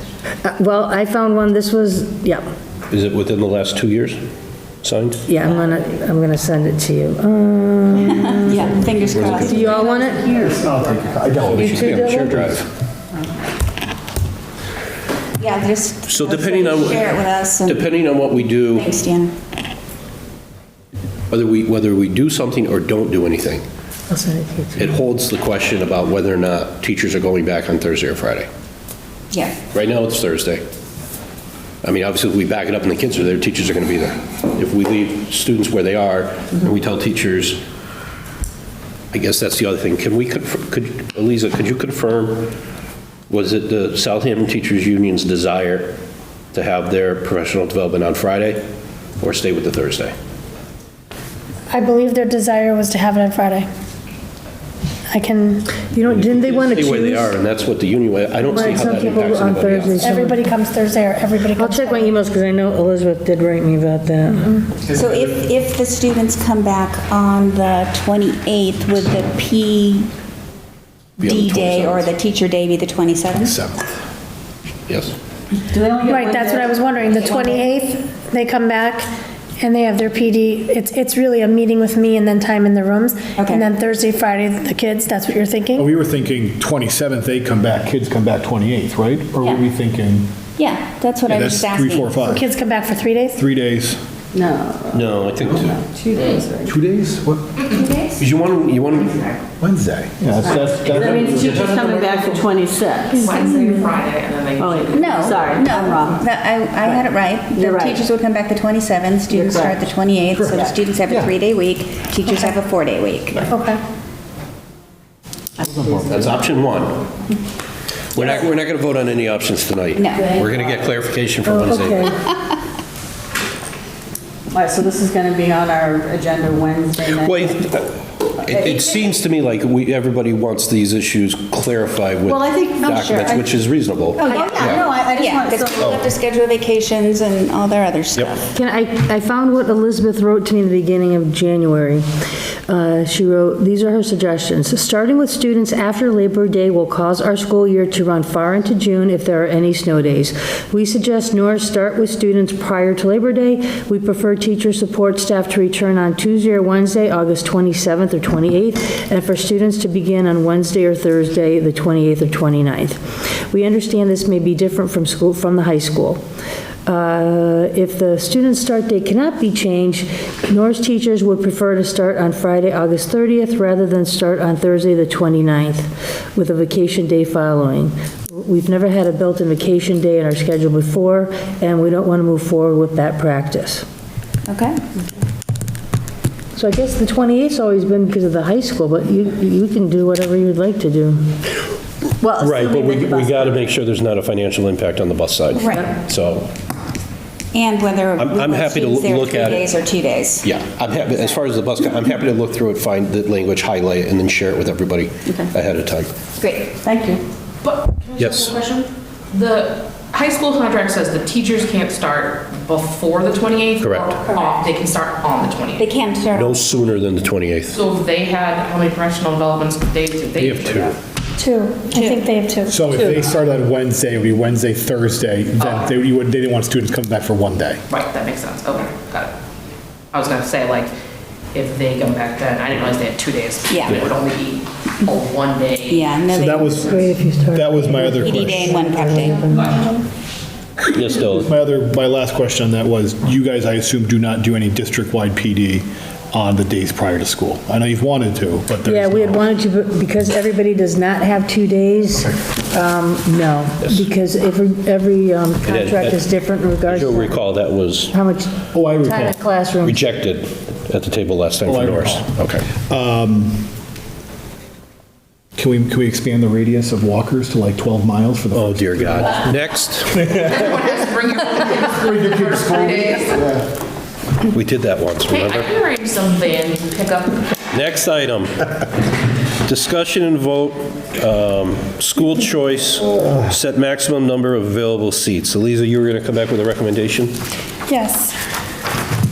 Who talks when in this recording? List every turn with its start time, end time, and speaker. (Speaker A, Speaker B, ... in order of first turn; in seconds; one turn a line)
Speaker A: 0.4-2.4
Speaker B: 2.9-4.2
Speaker B: 4.8-5.2
Speaker A: 5.3-10.3
Speaker C: 8.0-10.1
Speaker D: 8.8-9.5
Speaker B: 9.1-9.5
Speaker E: 9.5-11.2
Speaker D: 10.2-12.6
Speaker B: 11.4-12.7
Speaker A: 11.5-12.5
Speaker C: 15.4-17.9
Speaker B: 16.1-18.9
Speaker C: 18.7-19.3
Speaker B: 21.3-23.6
Speaker A: 24.1-24.9
Speaker B: 24.8-28.5
Speaker C: 29.3-29.6
Speaker B: 29.7-30.6
Speaker B: 31.8-37.6
Speaker B: 39.1-42.5
Speaker B: 43.3-46.0
Speaker B: 46.5-48.6
Speaker B: 49.2-50.1
Speaker F: 51.7-53.7
Speaker F: 55.1-55.6
Speaker A: 55.9-57.3
Speaker B: 56.2-60.1
Speaker A: 58.5-60.4
Speaker F: 60.0-61.9
Speaker A: 61.5-64.6
Speaker C: 64.9-70.1
Speaker B: 71.2-72.1
Speaker C: 71.2-73.5
Speaker D: 73.4-73.8
Speaker B: 74.9-75.1
Speaker E: 75.7-77.7
Speaker F: 76.1-85.8
Speaker C: 83.4-83.7
Speaker D: 85.7-90.3
Speaker C: 90.6-92.3
Speaker D: 91.3-92.5
Speaker F: 92.3-93.4
Speaker D: 93.3-94.0
Speaker E: 94.3-96.8
Speaker B: 94.9-95.8
Speaker D: 96.7-97.6
Speaker C: 97.8-98.2
Speaker B: 98.2-99.2
Speaker D: 99.6-101.8
Speaker E: 100.4-103.8
Speaker B: 101.4-102.2
Speaker G: 103.2-105.7
Speaker E: 104.6-106.2
Speaker C: 104.9-113.5
Speaker E: 107.5-108.0
Speaker E: 109.3-110.8
Speaker F: 113.5-113.8
Speaker E: 115.6-116.0
Speaker B: 116.1-117.0
Speaker B: 118.1-122.1
Speaker C: 120.0-120.3
Speaker E: 120.2-120.9
Speaker A: 121.4-122.2
Speaker E: 124.5-127.8
Speaker B: 127.2-134.8
Speaker E: 128.5-129.0
Speaker E: 132.2-133.6
Speaker E: 134.1-136.0
Speaker C: 134.3-138.4
Speaker D: 135.8-136.1
Speaker A: 138.5-142.0
Speaker A: 142.7-166.2
Speaker A: 166.8-183.8
Speaker C: 184.5-184.8
Speaker A: 186.5-191.2
Speaker E: 192.2-193.6
Speaker B: 192.4-196.5
Speaker C: 195.5-195.9
Speaker C: 197.5-200.5
Speaker B: 198.2-199.7
Speaker B: 200.4-206.1
Speaker C: 206.4-206.8
Speaker E: 206.8-207.2
Speaker G: 207.6-215.9
Speaker B: 208.2-208.6
Speaker B: 213.8-214.2
Speaker C: 215.8-216.7
Speaker B: 216.3-217.8
Speaker G: 217.7-220.9
Speaker B: 220.4-220.9
Speaker F: 221.4-222.7
Speaker C: 221.9-222.3
Speaker D: 222.7-227.8
Speaker E: 222.9-223.2
Speaker G: 225.6-225.9
Speaker G: 227.9-229.3
Speaker G: 230.1-230.9
Speaker G: 231.5-236.8
Speaker C: 233.7-234.0
Speaker C: 235.8-236.7
Speaker D: 236.3-238.7
Speaker A: 236.8-240.0
Speaker C: 238.2-239.9
Speaker B: 240.9-241.5
Speaker D: 241.2-249.5
Speaker A: 248.8-257.4
Speaker B: 253.8-254.1
Speaker B: 255.6-256.2
Speaker B: 256.9-258.1
Speaker A: 258.1-260.1
Speaker D: 258.7-259.3
Speaker B: 259.8-262.7
Speaker D: 261.6-263.7
Speaker D: 265.6-269.5
Speaker B: 268.5-270.2
Speaker D: 270.1-270.7
Speaker G: 270.2-273.5
Speaker D: 271.7-273.6
Speaker B: 274.5-275.7
Speaker G: 275.3-277.5
Speaker B: 277.7-278.6
Speaker B: 279.6-287.4
Speaker F: 287.9-288.3